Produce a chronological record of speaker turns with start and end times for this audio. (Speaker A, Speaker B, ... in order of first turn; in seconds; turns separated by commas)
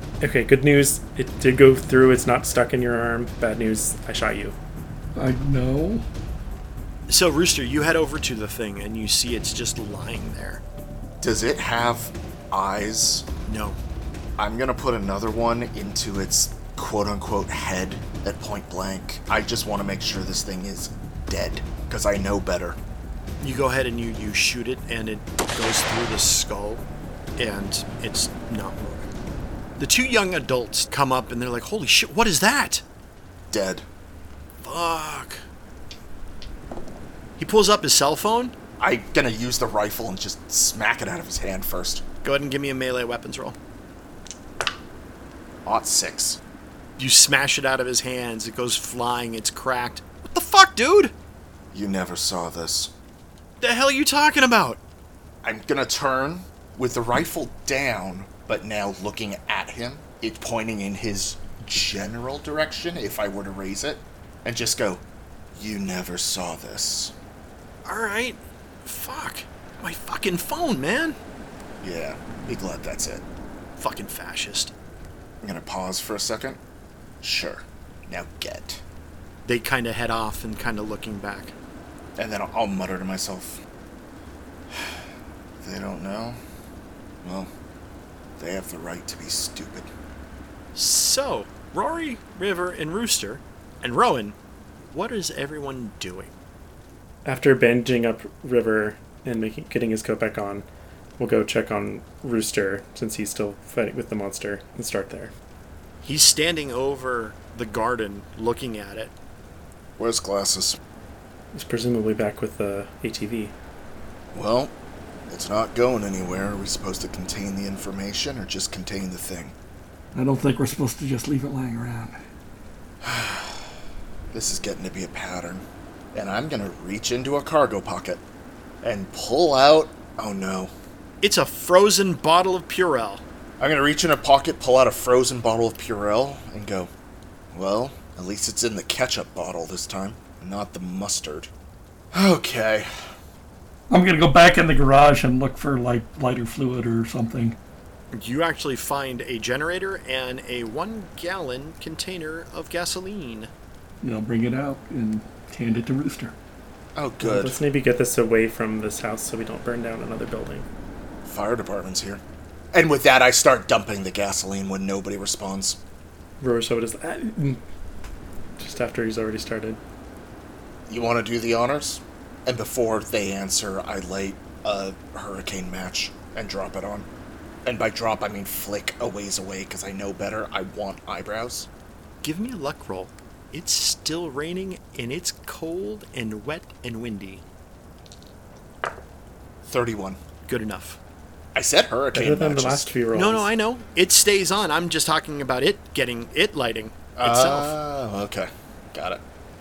Speaker A: 0.2-4.6, Speaker B: 5.1-6.0, Speaker C: 7.1-10.6, Speaker D: 11.2-13.3, Speaker C: 13.5-13.8, Speaker D: 14.4-22.8, Speaker C: 23.4-26.8, Speaker C: 27.4-29.1, Speaker C: 29.8-32.8, Speaker D: 33.5-33.9, Speaker C: 34.6-35.4, Speaker C: 37.4-38.5, Speaker D: 38.8-42.0, Speaker C: 42.2-43.6, Speaker D: 45.6-46.4, Speaker C: 47.0-51.1, Speaker D: 51.7-52.9, Speaker C: 53.6-54.8, Speaker D: 55.4-65.0, Speaker D: 65.5-67.1, Speaker C: 67.8-71.2, Speaker D: 71.8-73.2, Speaker C: 73.8-74.7, Speaker D: 75.4-76.6, Speaker D: 77.2-78.8, Speaker C: 79.5-81.5, Speaker D: 82.2-83.6, Speaker D: 84.7-85.0, Speaker D: 85.6-86.4, Speaker D: 87.2-87.5, Speaker D: 88.4-89.9, Speaker C: 90.8-96.3, Speaker A: 97.2-100.7, Speaker A: 101.2-105.3, Speaker C: 106.0-109.1, Speaker D: 110.0-110.8, Speaker A: 111.5-113.5, Speaker D: 114.3-114.7, Speaker D: 115.3-119.5, Speaker B: 120.1-122.2, Speaker D: 123.0-123.7, Speaker D: 124.3-128.2, Speaker D: 128.8-130.7, Speaker C: 131.2-133.2, Speaker D: 133.6-136.9, Speaker D: 137.5-141.5, Speaker D: 142.1-143.1, Speaker B: 143.9-147.6, Speaker C: 148.1-153.5, Speaker B: 154.0-156.3, Speaker D: 157.0-157.6, Speaker A: 157.2-160.7, Speaker D: 161.2-162.2, Speaker D: 162.7-165.8, Speaker A: 166.4-167.6, Speaker A: 168.6-169.8, Speaker D: 170.9-177.1, Speaker D: 177.6-181.7, Speaker C: 182.2-187.4, Speaker D: 189.7-190.2, Speaker C: 190.5-191.0, Speaker D: 191.6-192.9, Speaker A: 192.1-193.5, Speaker C: 193.1-197.8, Speaker D: 197.2-199.2